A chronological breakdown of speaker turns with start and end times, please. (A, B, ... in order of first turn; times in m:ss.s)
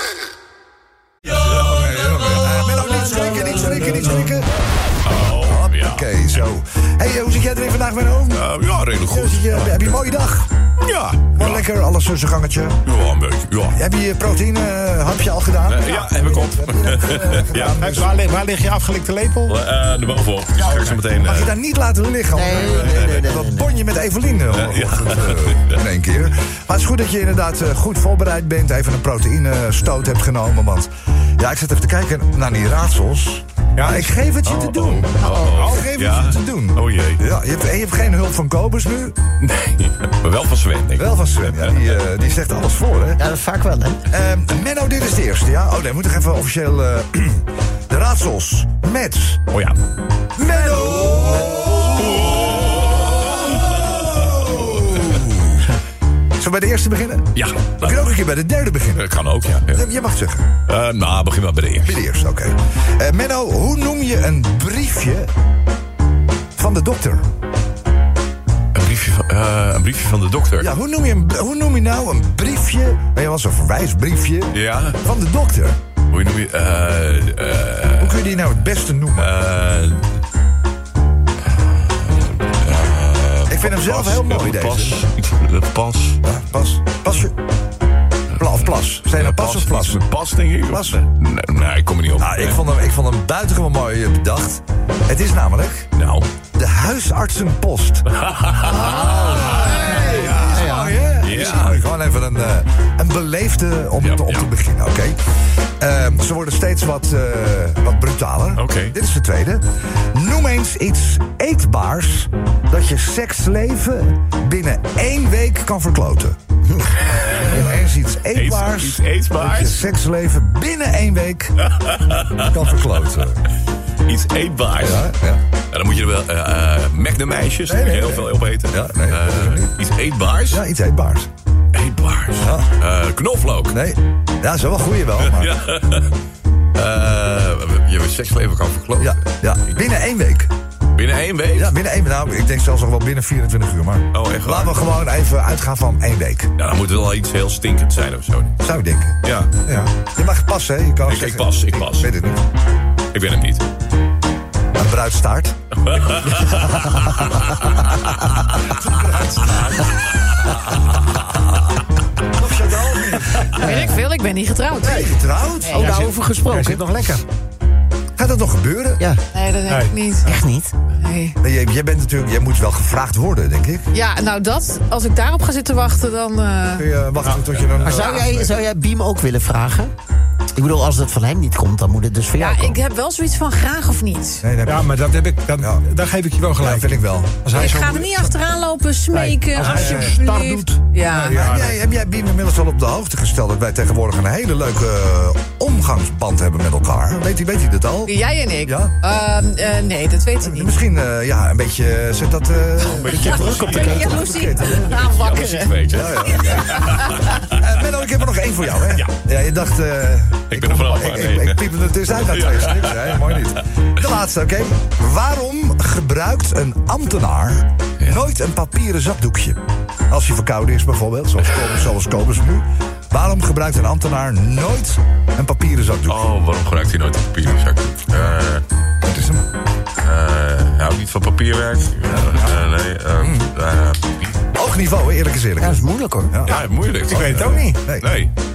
0:01.3-0:04.5 A
0:05.0-0:06.0 B
0:05.3-0:08.5 A
0:08.3-0:09.7 B
0:09.1-0:10.5 A
0:10.8-0:11.7 B
0:11.4-0:12.8 A
0:12.9-0:13.8 B
0:13.7-0:18.1 A
0:15.7-0:17.8 B
0:17.8-0:19.6 C
0:19.5-0:21.5 B
0:20.8-0:39.2 A
0:22.3-0:23.7 D
0:22.8-0:23.0 B
0:24.6-0:25.8 B
0:33.8-0:34.1 C
0:34.5-0:37.2 B
0:35.2-0:35.7 D
0:39.4-0:41.0 B
0:41.0-0:43.2 A
0:43.2-0:44.0 D
0:44.1-0:49.4 A
0:49.5-0:49.8 B
0:50.4-0:55.6 A
0:51.8-0:53.0 B
0:56.4-0:59.1 A
0:57.3-0:58.1 B
0:58.9-0:59.8 B
0:59.7-1:00.5 A
1:00.7-1:02.0 B
1:01.8-1:05.3 A
1:06.6-1:07.3 A
1:08.7-1:10.7 B
1:10.6-1:15.8 A
1:14.5-1:15.0 B
1:16.1-1:18.2 B
1:18.0-1:19.3 A
1:19.2-1:20.1 B
1:21.8-1:26.2 B
1:23.5-1:25.0 A
1:26.2-1:27.3 A
1:28.4-1:30.0 A
1:29.1-1:32.6 B
1:30.7-1:31.0 A
1:32.2-1:35.9 A
1:36.0-1:36.3 B
1:36.5-1:38.1 A
1:38.2-1:40.6 B
1:38.6-1:45.2 A
1:38.9-1:41.0 D
1:41.2-1:41.8 B
1:44.0-1:44.5 B
1:45.8-1:56.4 A
1:48.6-1:49.0 B
1:57.2-1:57.6 B
1:57.2-2:01.6 A
1:58.3-1:59.8 B
2:01.8-2:02.4 B
2:02.4-2:03.4 A
2:04.0-2:05.1 B
2:04.8-2:05.4 A
2:05.7-2:10.6 B
2:07.7-2:09.7 A
2:10.5-2:11.3 A
2:11.7-2:13.8 B
2:12.4-2:12.7 A
2:13.7-2:15.6 A
2:15.2-2:16.1 B
2:16.8-2:19.2 B
2:19.0-2:20.5 A
2:21.0-2:21.7 B
2:21.6-2:26.5 A
2:24.1-2:24.8 B
2:26.6-2:28.6 B
2:28.6-2:29.2 A
2:29.2-2:29.5 B
2:29.7-2:29.9 C
2:30.2-2:32.4 A
2:31.1-2:32.1 B
2:33.1-2:33.7 B
2:34.8-2:35.6 A
2:35.9-2:36.4 B
2:36.1-2:37.1 A
2:38.6-2:39.8 A
2:42.3-2:43.6 A
2:43.6-2:43.8 D
2:43.6-2:45.9 E
2:44.8-2:46.1 A
2:45.7-2:47.2 D
2:46.0-2:47.2 C
2:48.2-2:49.0 A
2:49.3-2:50.4 E
2:49.7-2:49.9 C
2:50.2-2:50.7 D
2:50.9-2:51.4 E
2:51.4-2:53.8 A
2:53.9-2:56.9 E
2:56.8-2:58.2 A
2:57.8-2:59.9 D
3:00.6-3:02.8 D
3:02.4-3:04.4 E
3:04.4-3:04.9 A
3:04.7-3:08.4 C
3:05.6-3:05.8 A
3:06.6-3:07.4 A
3:07.5-3:11.4 E
3:09.1-3:11.8 C
3:09.6-3:10.2 A
3:11.3-3:18.9 A
3:18.1-3:20.8 E
3:20.4-3:24.9 A
3:22.8-3:27.0 B
3:23.0-3:27.3 E
3:25.9-3:46.3 A
3:30.5-3:31.6 B
3:32.2-3:33.3 B
3:46.1-3:48.6 B
3:49.0-3:49.4 A
3:50.0-3:54.4 B
3:53.2-3:53.5 A
3:54.5-3:56.6 A
3:55.6-3:56.4 D
3:56.4-3:58.3 B
3:57.1-3:57.8 C
3:57.2-3:58.2 A